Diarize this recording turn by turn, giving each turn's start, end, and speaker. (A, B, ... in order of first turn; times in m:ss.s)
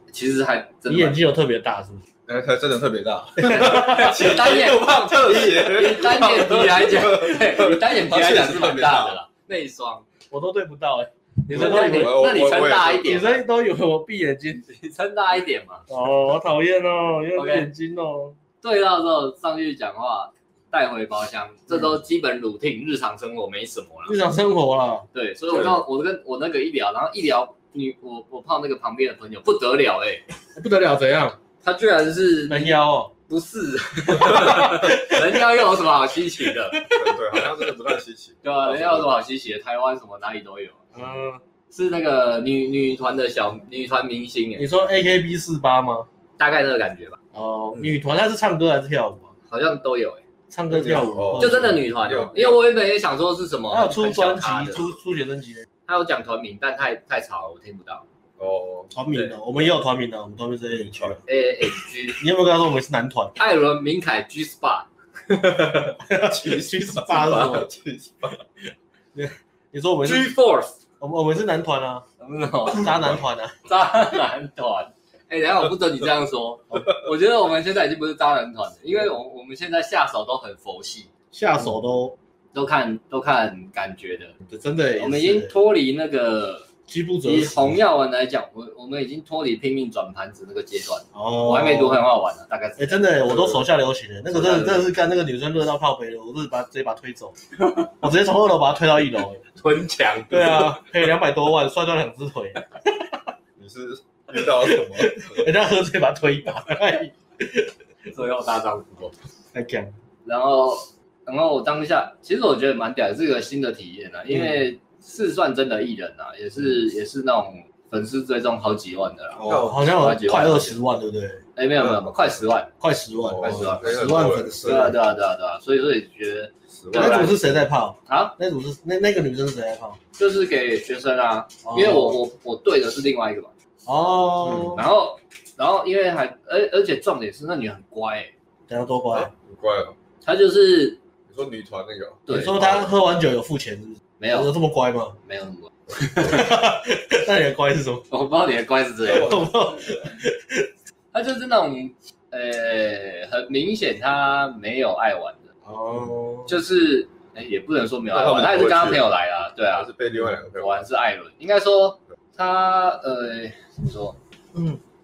0:00.1-0:01.2 A
0:00.9-0:02.0 B
0:02.3-0:09.2 C
0:03.4-0:04.4 B
0:03.5-0:10.1 A
0:10.3-0:12.3 B
0:11.4-0:13.4 A
0:11.5-0:13.1 C
0:13.0-0:14.6 B
0:14.6-0:15.8 A
0:15.9-0:18.4 B
0:17.3-0:17.7 A
0:18.6-0:24.1 A
0:24.0-0:25.1 B
0:25.1-0:30.2 A
0:30.5-0:31.4 B
0:31.6-0:32.8 A
0:32.5-0:33.1 B
0:33.3-0:36.8 A
0:34.1-0:35.4 B
0:36.7-0:37.4 B
0:36.9-0:39.1 C
0:38.4-0:40.8 A
0:40.9-0:41.4 B
0:41.7-0:44.7 A
0:44.6-0:46.1 B
0:46.4-0:47.2 A
0:47.3-0:49.3 B
0:49.5-0:50.2 A
0:50.5-0:51.8 B
0:50.7-0:52.6 C
0:51.4-0:54.8 A
0:53.7-0:55.6 B
0:55.9-0:58.0 A
0:58.4-0:58.9 C
0:58.9-1:01.2 B
1:00.7-1:01.2 C
1:01.3-1:02.2 A
1:02.2-1:03.3 B
1:03.4-1:06.0 A
1:06.0-1:07.7 B
1:06.1-1:08.4 C
1:09.1-1:10.4 B
1:10.0-1:10.7 A
1:11.0-1:12.0 B
1:12.2-1:21.1 A
1:12.7-1:13.6 B
1:21.3-1:22.2 B
1:22.5-1:24.3 A
1:24.5-1:25.5 B
1:25.0-1:26.7 A
1:26.9-1:27.8 B
1:27.2-1:33.4 A
1:31.1-1:32.0 B
1:32.8-1:37.4 B
1:34.3-1:34.9 A
1:37.6-1:37.9 A
1:37.9-1:39.4 B
1:39.6-1:40.8 A
1:40.3-1:43.1 B
1:43.6-1:45.4 C
1:44.3-1:47.7 B
1:48.1-1:49.1 A
1:49.5-1:49.9 B
1:50.2-2:00.8 A
1:54.3-1:54.6 B
1:59.4-2:01.4 B
1:59.4-1:59.8 C
2:01.6-2:02.7 A
2:01.8-2:02.2 C
2:02.8-2:05.0 B
2:03.2-2:04.9 C
2:03.4-2:07.4 A
2:06.7-2:07.4 C
2:06.9-2:10.0 B
2:08.1-2:08.4 A
2:10.2-2:13.5 A
2:11.6-2:12.2 B
2:13.8-2:14.8 B
2:14.4-2:14.8 C
2:14.7-2:18.3 A
2:18.7-2:19.3 B
2:19.1-2:19.9 C
2:20.2-2:21.0 A
2:21.3-2:22.9 C
2:22.3-2:22.5 A
2:22.3-2:25.2 B
2:24.2-2:24.5 A
2:25.2-2:26.4 A
2:26.1-2:28.0 B
2:28.1-2:29.5 A
2:29.1-2:29.4 C
2:29.1-2:30.7 B
2:31.1-2:35.5 A
2:35.6-2:36.5 B
2:36.5-2:39.9 A
2:38.1-2:40.8 C
2:40.5-2:44.2 A